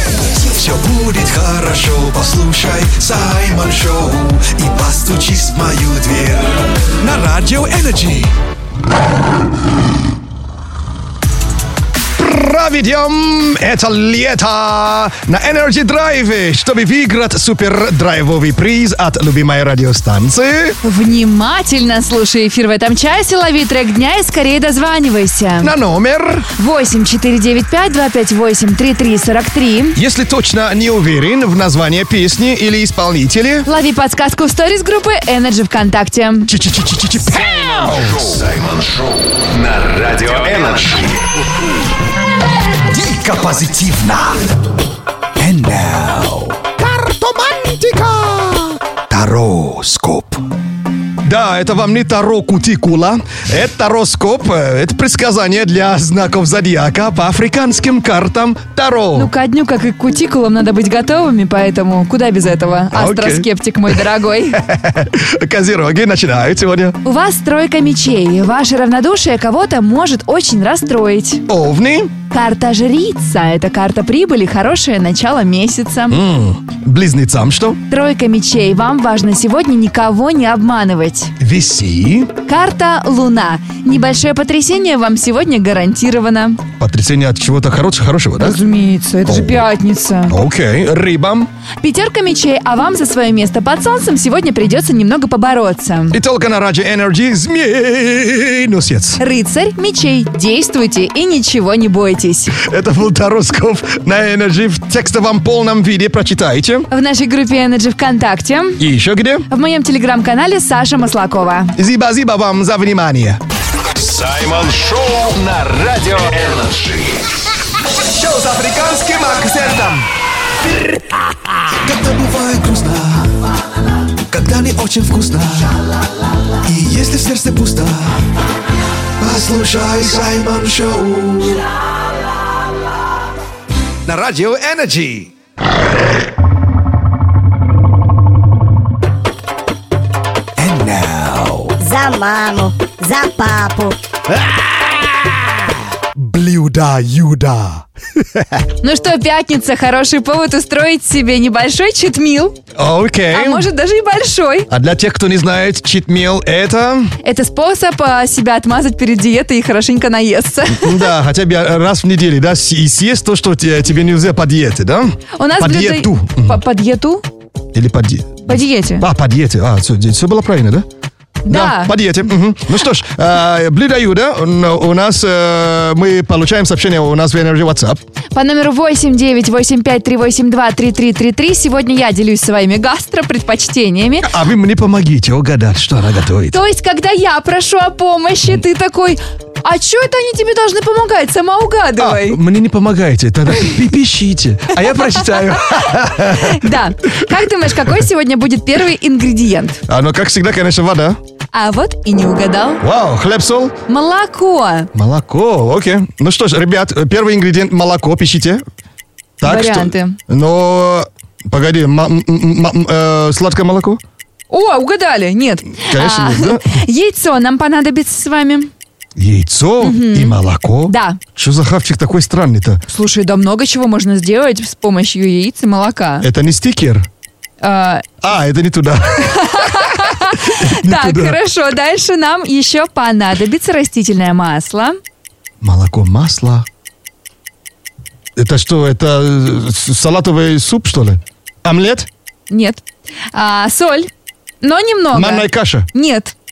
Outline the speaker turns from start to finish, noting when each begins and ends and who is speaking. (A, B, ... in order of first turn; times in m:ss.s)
0:00.2-0:08.3 A
0:12.2-0:20.8 B
0:20.8-0:25.7 C
0:25.6-0:26.5 B
0:26.6-0:30.0 C
0:30.0-0:33.7 B
0:33.7-0:36.5 C
0:36.5-0:38.2 B
0:37.3-0:41.3 D
0:42.9-0:44.4 A
0:45.4-0:46.7 A
0:46.8-0:48.7 B
0:49.1-0:50.4 A
0:51.2-0:59.3 B
0:59.1-1:04.6 C
1:02.9-1:03.5 B
1:04.6-1:07.0 B
1:07.0-1:11.4 C
1:11.5-1:12.1 B
1:12.3-1:16.2 C
1:16.1-1:17.8 B
1:17.9-1:21.3 C
1:21.4-1:22.3 B
1:22.5-1:26.6 C
1:26.8-1:28.6 B
1:28.4-1:30.4 C
1:29.3-1:29.7 B
1:30.3-1:31.5 B
1:31.8-1:36.2 C
1:36.1-1:39.2 B
1:39.2-1:42.6 C
1:42.6-1:46.9 B
1:46.9-1:48.8 C
1:48.8-1:49.5 B
1:49.5-1:51.8 C
1:51.8-1:53.4 B
1:54.0-1:57.3 D
1:58.1-2:00.1 E
2:01.8-2:03.3 A
2:04.3-2:05.8 A
2:06.6-2:08.2 A
2:09.2-2:11.7 A
2:14.1-2:15.3 B
2:20.6-2:21.8 A
2:21.8-2:24.0 F
2:26.2-2:27.9 B
2:28.8-2:32.6 C
2:32.8-2:33.7 B
2:33.3-2:34.7 C
2:34.7-2:37.1 B
2:37.2-2:41.1 C
2:40.7-2:46.6 B
2:45.4-2:47.2 C
2:47.7-2:50.9 B
2:48.5-2:49.1 C
2:51.5-2:52.0 C
2:51.5-2:58.0 B
2:58.3-3:04.3 C
3:04.2-3:06.6 B
3:06.5-3:12.4 C
3:12.0-3:17.2 B
3:15.7-3:19.8 C
3:19.9-3:21.2 B
3:21.5-3:22.8 C
3:22.8-3:23.7 B
3:23.9-3:24.9 C
3:25.0-3:28.6 B
3:29.4-3:34.0 B
3:29.4-3:30.2 C
3:34.5-3:38.7 C
3:35.8-3:36.8 B
3:39.2-3:42.8 B
3:39.8-3:41.2 C
3:42.9-3:46.3 C
3:46.2-3:47.1 B
3:47.6-3:48.1 C
3:48.2-3:51.4 B
3:49.2-3:55.0 C
3:55.6-3:56.7 B
3:58.4-4:02.1 B
4:02.5-4:02.8 C
4:03.3-4:04.1 C
4:04.6-4:06.3 C
4:05.1-4:05.9 B